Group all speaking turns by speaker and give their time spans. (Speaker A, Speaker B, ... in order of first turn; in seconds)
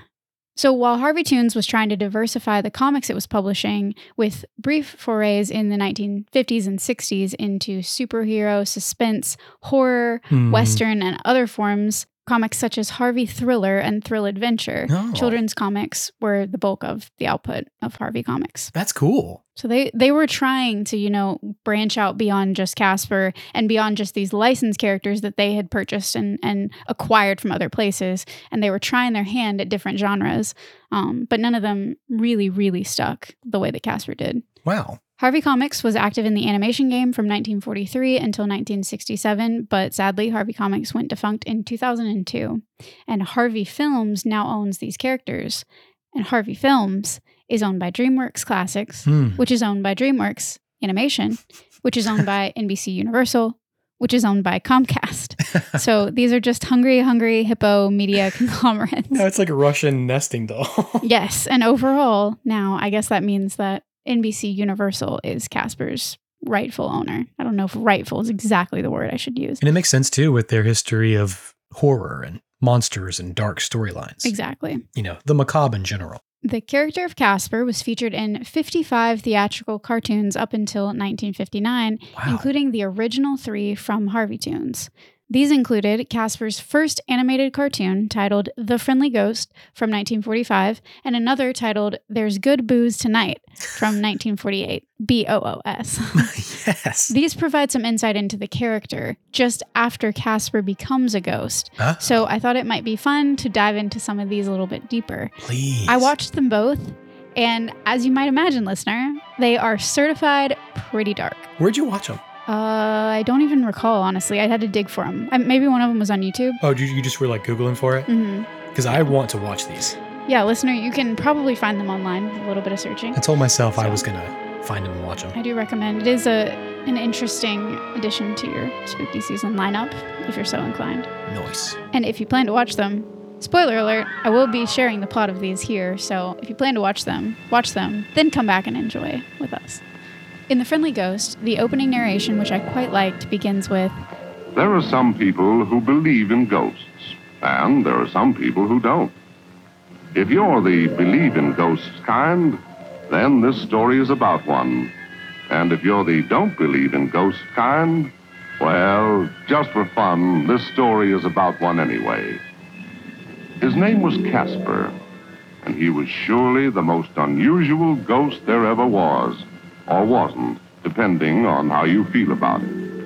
Speaker A: 0.6-18.7, 19.6-34.5, 35.2-59.2, 61.0-69.6, 74.2-74.8, 76.4-96.3, 97.1-105.3, 105.9-111.5, 112.5-116.6, 118.1-118.5, 120.3-123.2, 123.8-124.0, 125.3-131.1, 131.9-139.8, 140.5-143.9
Speaker B: 10.3-10.8, 14.9-15.4, 18.7-19.4, 34.6-35.0, 49.0-49.4, 55.5-55.8, 59.1-61.1, 69.6-74.3, 74.9-76.2, 82.1-82.5, 96.2-97.1, 101.8-102.2, 105.4-106.1, 111.6-112.2, 116.6-118.1, 118.7-120.0, 123.1-125.4, 131.3-131.8
Speaker C: 144.5-149.1, 150.1-154.9, 155.5-162.4, 163.6-164.9, 165.6-172.7